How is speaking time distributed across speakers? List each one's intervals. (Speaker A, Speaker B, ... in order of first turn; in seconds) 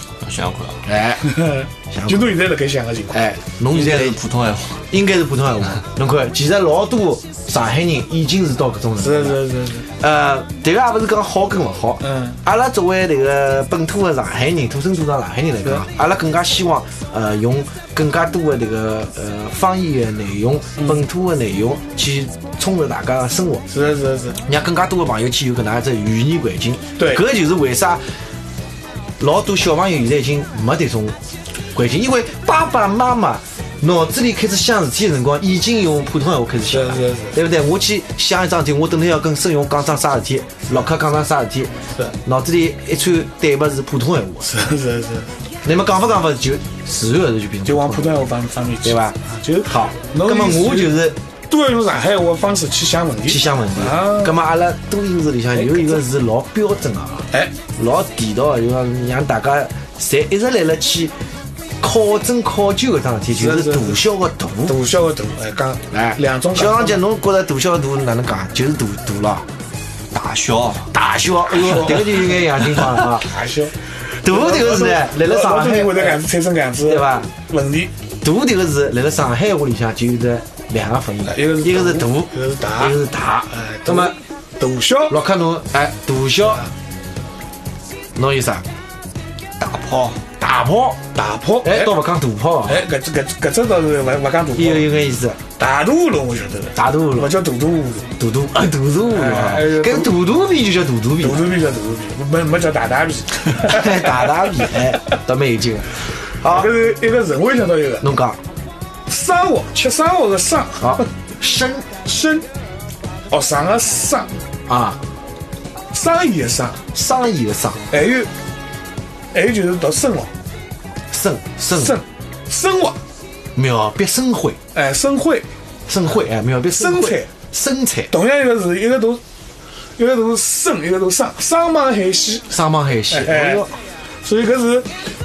Speaker A: 0.2-0.9, 3.7-4.9, 70.1-70.9, 89.6-90.2
Speaker B: 0.9-1.2, 1.9-2.3, 3.1-4.2, 4.9-23.6, 24.4-28.0, 29.2-31.2, 31.7-44.5, 45.6-48.3, 48.8-51.2, 53.3-61.1, 61.8-64.8, 65.9-69.5, 70.9-73.3, 74.2-76.2, 76.8-77.3, 78.2-84.2, 85.1-86.6, 88.2-88.7, 90.3-91.0, 91.6-92.8, 94.5-95.4, 96.8-97.3, 98.2-101.5, 103.5-106.7, 108.0-108.4, 110.8-112.0, 114.7-115.0, 116.9-117.8, 121.1-122.0, 123.5-124.6, 125.9-128.1, 132.5-133.8
Speaker C: 1.2-3.3, 9.0-9.9, 12.0-12.4, 23.7-24.4, 27.0-27.2, 36.7-37.4, 44.4-45.3, 47.6-54.4, 55.6-56.0, 63.3-64.0, 64.7-67.0, 71.5-72.3, 73.0-77.9, 81.3-83.0, 83.5-85.2, 91.2-92.0, 92.7-94.9, 95.6-98.1, 99.1-100.2, 101.2-104.8, 106.4-108.1, 109.1-111.1, 112.0-112.5, 113.3-114.3, 115.9-116.8, 117.9-118.3, 119.3-120.3, 121.7-123.0, 124.7-125.5, 126.8-127.3, 128.1-129.2, 130.0-132.5, 133.1-133.7, 134.2-134.9